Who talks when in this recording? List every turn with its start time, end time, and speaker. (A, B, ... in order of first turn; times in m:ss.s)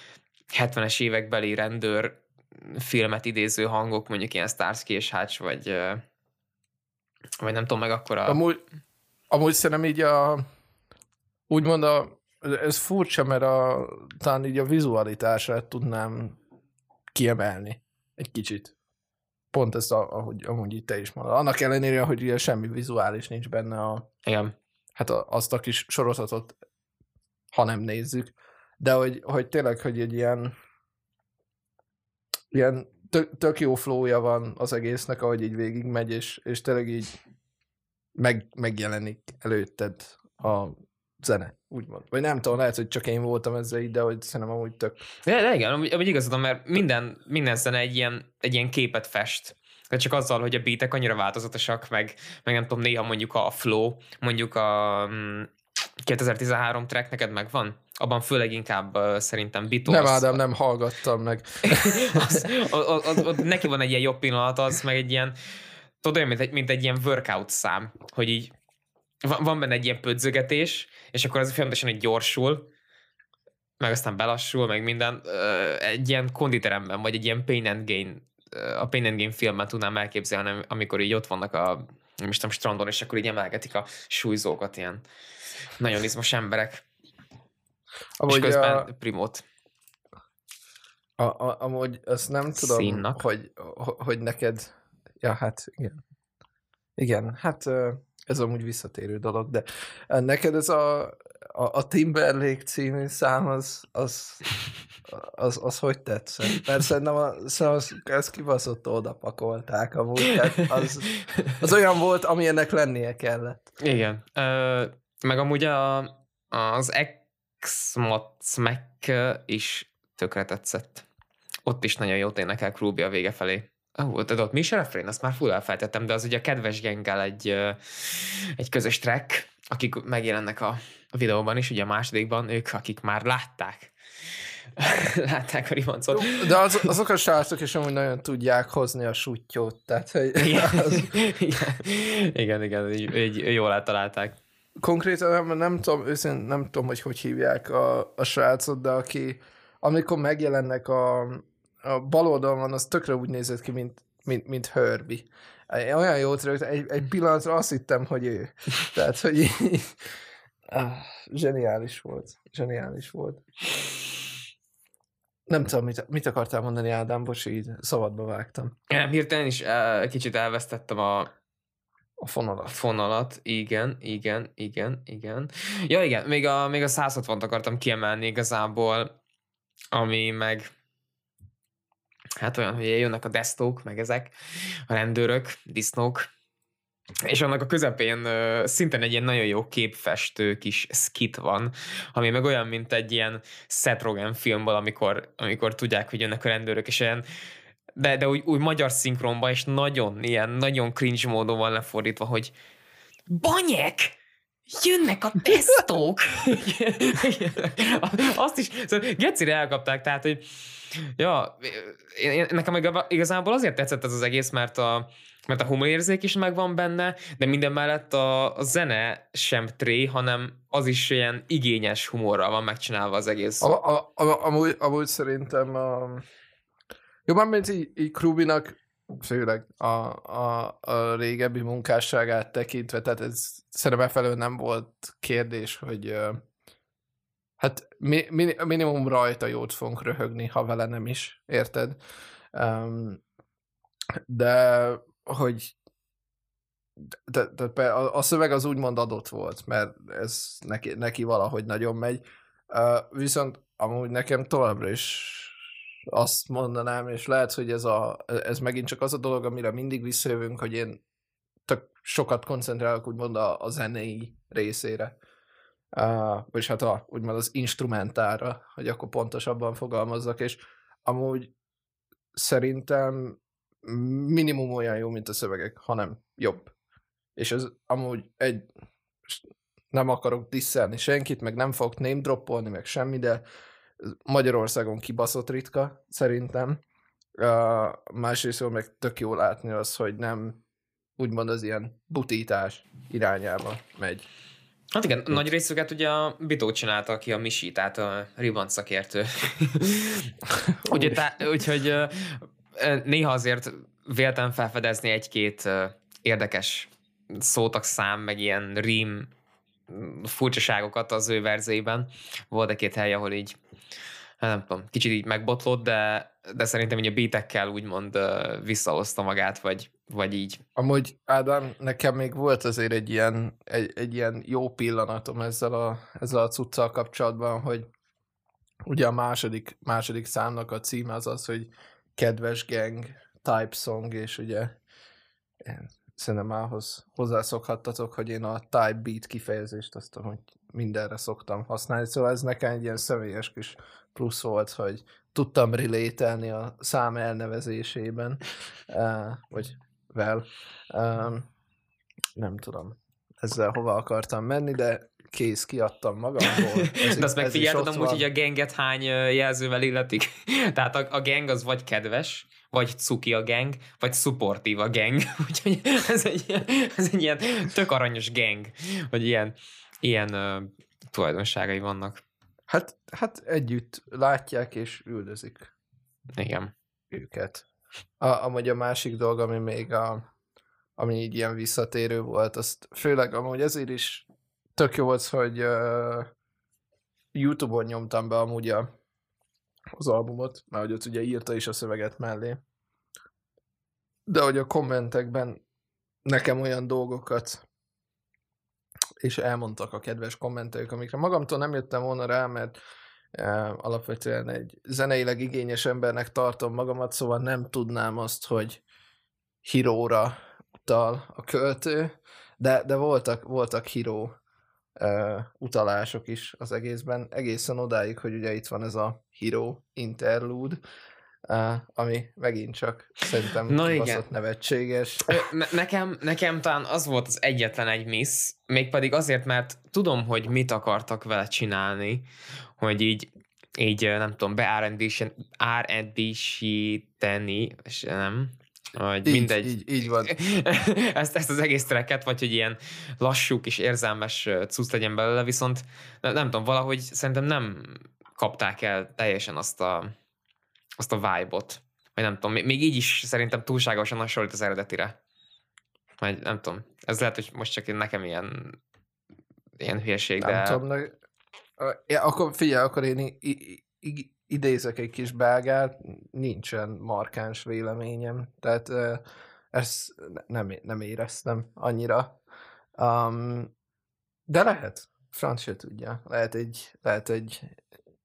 0:00.5-0:06.0 A
0:07.4-0:08.4 A
0:08.2-0:08.6 B
0:09.3-0:10.4 B
0:11.5-0:16.4 B
0:17.1-0:18.7 B
0:19.5-0:24.1 B
0:24.2-0:24.5 A
0:25.0-0:26.5 B
0:27.5-0:30.5 B
0:32.5-0:37.2 B
0:38.2-0:45.0 B
0:45.2-0:55.5 A
0:56.0-1:00.4 A
0:59.8-1:02.5 B
1:01.7-1:05.4 A
1:06.0-1:08.5 A
1:09.2-1:12.7 A
1:13.8-1:25.0 A
1:25.8-1:26.8 A
1:28.2-1:28.9 B
1:28.2-1:29.4 A
1:31.2-1:36.0 B
1:32.6-1:33.2 A
1:37.0-1:53.7 B
1:53.8-2:01.0 A
2:01.6-2:13.9 A
2:14.8-2:16.9 A
2:16.1-2:21.1 B
2:20.4-2:24.4 A
2:24.8-2:40.1 B
2:40.7-2:43.4 B
2:45.5-2:48.7 B
2:48.9-2:51.3 A
2:52.2-2:52.8 B
2:52.7-2:59.1 A
2:59.9-3:00.7 A
3:02.4-3:04.3 A
3:04.9-3:06.3 A
3:07.2-3:17.2 A
3:18.0-3:22.5 A
3:23.3-3:24.1 A
3:24.7-3:43.7 A
3:43.6-3:46.2 B
3:47.2-3:56.4 B
3:57.6-4:02.0 B
4:02.5-4:03.2 B
4:04.3-4:05.7 B
4:07.0-4:15.6 B
4:16.1-4:21.0 B
4:21.6-4:25.2 B
4:25.9-4:31.5 B
4:32.3-4:36.7 B
4:37.4-4:38.7 B
4:39.2-4:43.4 B
4:44.0-4:46.8 B
4:47.4-4:50.6 B
4:51.2-4:54.3 B
4:54.9-5:00.3 A
5:00.8-5:01.2 B
5:00.8-5:09.3 A
5:09.9-5:13.6 A
5:14.4-5:20.6 A
5:20.8-5:27.9 B
5:28.8-5:34.8 B
5:35.6-5:51.5 B
5:52.4-5:58.3 B
5:56.8-6:12.2 A
6:12.7-6:15.7 B
6:16.3-6:16.7 A
6:17.1-6:17.6 B
6:18.2-6:20.2 B
6:21.0-6:26.3 B
6:27.3-6:28.9 B
6:30.0-6:32.6 B
6:34.3-6:35.6 B
6:36.2-6:37.6 B
6:39.2-6:42.8 B
6:43.3-6:48.8 B
6:49.6-6:54.3 B
6:55.0-7:00.8 B
7:01.5-7:05.4 B
7:03.7-7:04.2 A
7:05.3-7:12.3 A
7:12.8-7:30.1 A
7:19.2-7:20.3 B
7:31.0-7:35.2 A
7:36.2-7:38.8 A
7:39.8-7:40.8 A
7:40.4-7:41.2 B
7:41.8-7:52.4 B
7:53.0-7:53.7 B
7:54.5-7:57.8 B